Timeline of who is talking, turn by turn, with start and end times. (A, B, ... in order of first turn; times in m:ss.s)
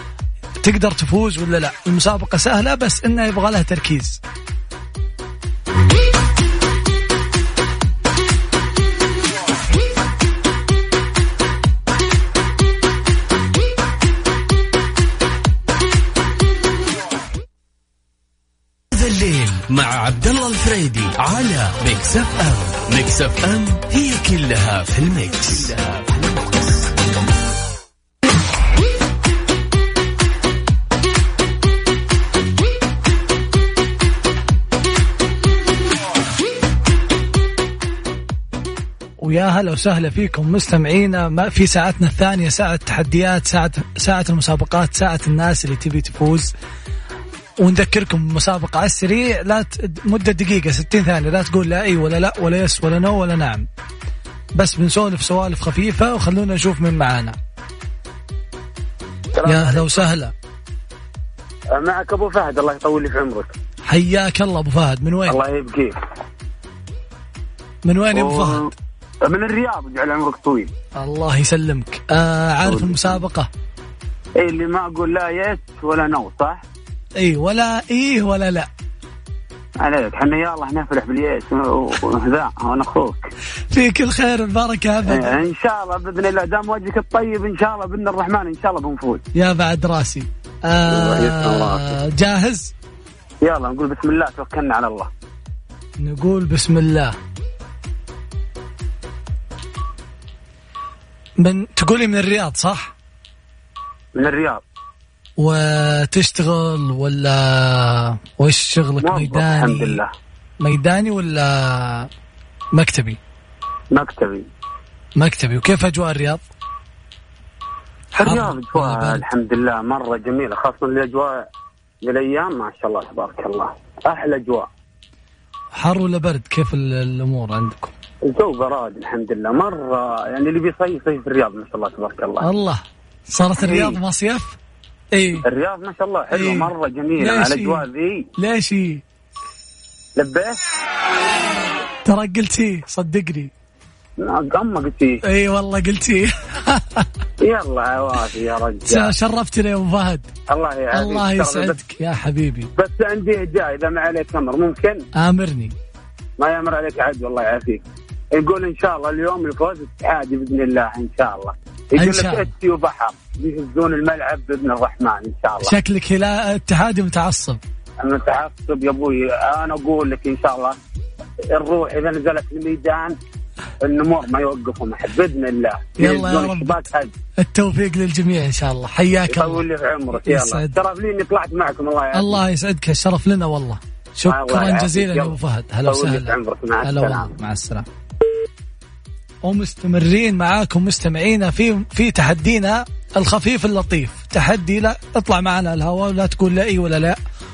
0:00.6-0:04.2 A
0:18.9-0:26.8 B
0:39.2-0:46.5 A
0:47.6-0:53.7 A
0:54.6-0:57.4 A
0:59.3-1:00.0 C
0:59.4-1:00.3 A
1:01.7-1:03.5 C
1:03.8-1:05.4 A
1:05.3-1:06.0 C
1:07.8-1:08.7 A
1:08.1-1:08.7 C
1:09.2-1:10.7 C
1:11.0-1:13.5 A
1:12.6-1:13.2 C
1:14.4-1:16.6 C
1:17.2-1:18.7 A
1:19.8-1:23.3 C
1:23.7-1:25.4 A
1:25.1-1:29.2 C
1:29.3-1:32.7 A
1:30.9-1:31.9 C
1:33.4-1:35.1 C
1:36.0-1:37.1 A
1:41.4-1:42.9 A
1:44.1-1:44.6 C
1:45.4-1:50.0 A
1:49.0-1:50.1 C
1:50.6-1:52.1 A
1:52.7-1:53.2 A
1:53.9-1:54.5 C
1:55.2-1:56.4 A
1:58.2-2:01.4 C
1:58.2-1:59.2 A
2:02.0-2:04.7 C
2:05.7-2:07.9 A
2:08.3-2:12.5 C
2:12.4-2:14.6 A
2:13.6-2:14.0 C
2:15.1-2:15.4 A
2:15.4-2:18.3 C
2:16.3-2:17.8 A
2:18.4-2:19.0 A
2:20.2-2:20.6 C
2:22.0-2:23.5 A
2:24.2-2:25.2 C
2:25.2-2:27.1 A
2:27.4-2:29.1 C
2:28.8-2:30.3 A
2:30.5-2:31.8 C
2:30.9-2:32.7 A
2:32.8-2:35.0 C
2:35.1-2:35.7 A
2:36.4-2:45.7 C
2:42.0-2:42.5 A
2:45.6-2:47.6 A
2:48.0-2:50.8 C
2:51.5-2:53.2 C
2:53.8-2:57.1 C
2:56.0-2:56.8 A
2:57.4-2:59.6 A
2:59.3-3:02.4 C
3:00.2-3:00.8 A
3:02.1-3:07.8 A
3:04.3-3:07.3 C
3:09.4-3:17.2 A